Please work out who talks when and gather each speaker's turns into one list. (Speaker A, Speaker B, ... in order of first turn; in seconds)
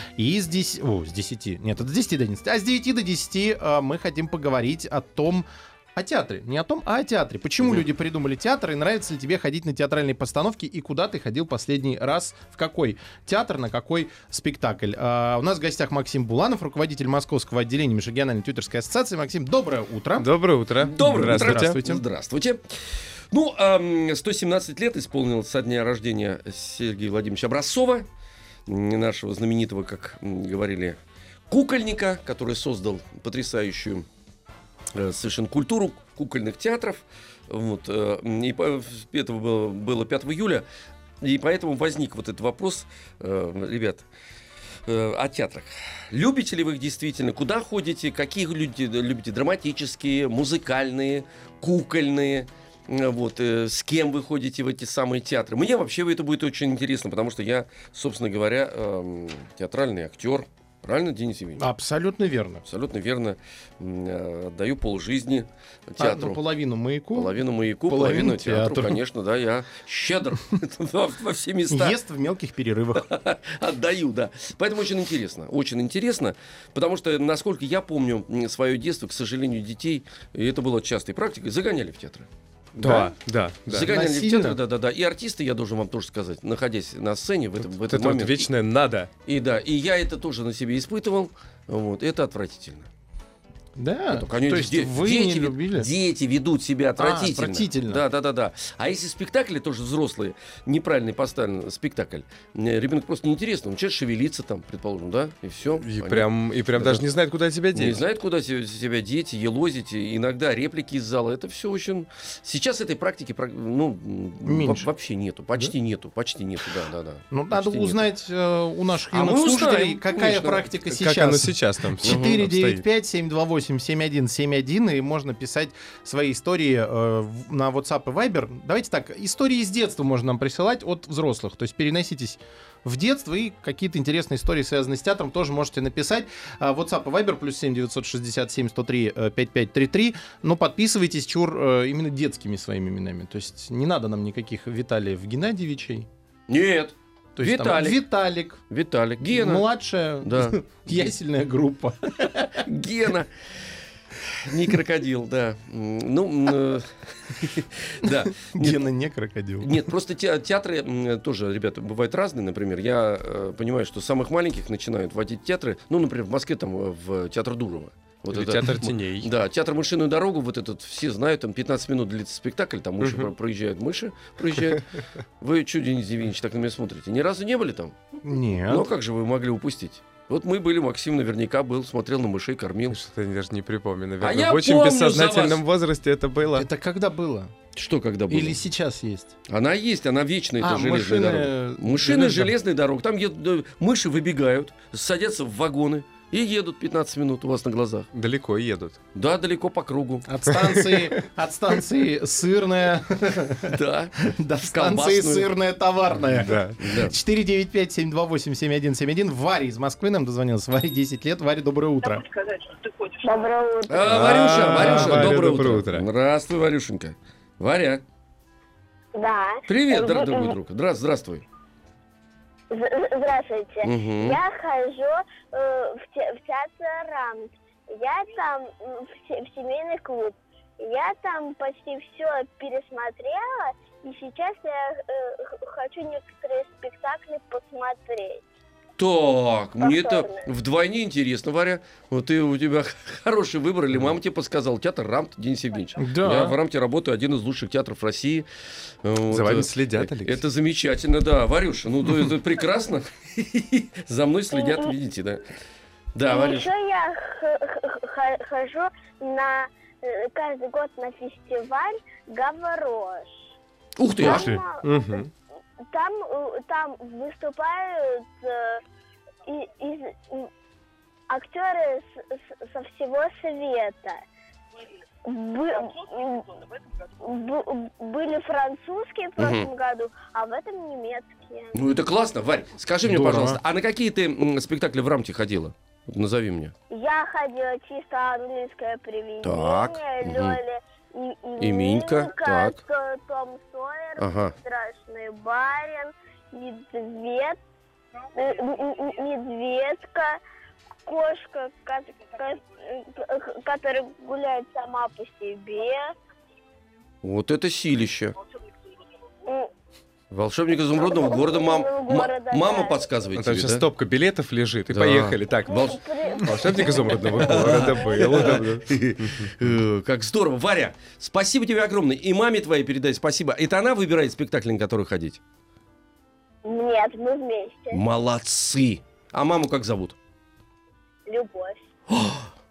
Speaker A: 0.2-20.3, 21.0-22.0, 61.6-62.6, 66.0-67.4, 67.9-69.0, 71.7-73.1, 82.8-83.1, 83.7-84.6, 93.8-95.9, 97.0-98.0, 114.5-114.9, 117.3-146.1, 147.4-148.6, 149.2-152.6, 158.1-159.7, 178.2-178.9, 186.5-187.5, 188.3-189.3, 190.6-192.5, 200.3-212.3, 214.6-215.4, 246.0-246.6, 264.2-264.6, 283.0-283.6
Speaker B: 20.2-21.8, 82.8-83.9, 87.9-89.1, 105.8-108.0, 120.9-122.8, 168.3-169.3, 173.0-173.3, 182.9-186.7, 198.1-199.0, 206.3-206.8, 214.0-216.1, 249.3-250.4, 264.2-265.3, 313.4-319.5
Speaker C: 20.8-28.1, 28.7-31.0, 31.5-34.0, 34.9-40.6, 41.2-44.1, 44.9-61.7, 62.7-66.4, 67.1-72.0, 73.0-82.3, 83.7-88.5, 89.3-92.9, 94.1-107.0, 107.7-118.0, 119.1-120.7, 122.0-122.4, 146.5-148.0, 148.7-149.7, 150.2-151.0, 152.5-153.8, 154.4-158.9, 159.6-174.8, 175.4-178.2, 178.7-183.0, 184.2-185.6, 187.7-188.6, 189.5-198.1, 199.2-200.3, 203.7-205.5, 206.8-207.2, 213.9-218.0, 219.7-221.5, 223.8-224.4, 239.0-248.5, 249.0-255.4, 256.1-256.7, 264.0-264.5, 279.4-279.7, 281.7-286.7, 289.4-290.6, 291.6-292.8, 294.2-294.6, 307.2-308.4, 310.3-313.9, 314.9-316.0, 316.6-325.4, 327.9-330.2, 332.1-332.5
Speaker D: 213.0-214.3, 219.2-220.6, 222.7-238.4, 239.8-240.5, 254.5-254.9, 256.2-263.4, 264.2-264.9, 265.9-268.8, 269.5-270.5, 271.3-274.2, 275.2-276.5, 277.2-281.8, 286.9-297.6, 298.3-300.4, 301.1-306.1, 311.0-313.0, 315.7-317.4, 326.6-328.0, 331.3-331.8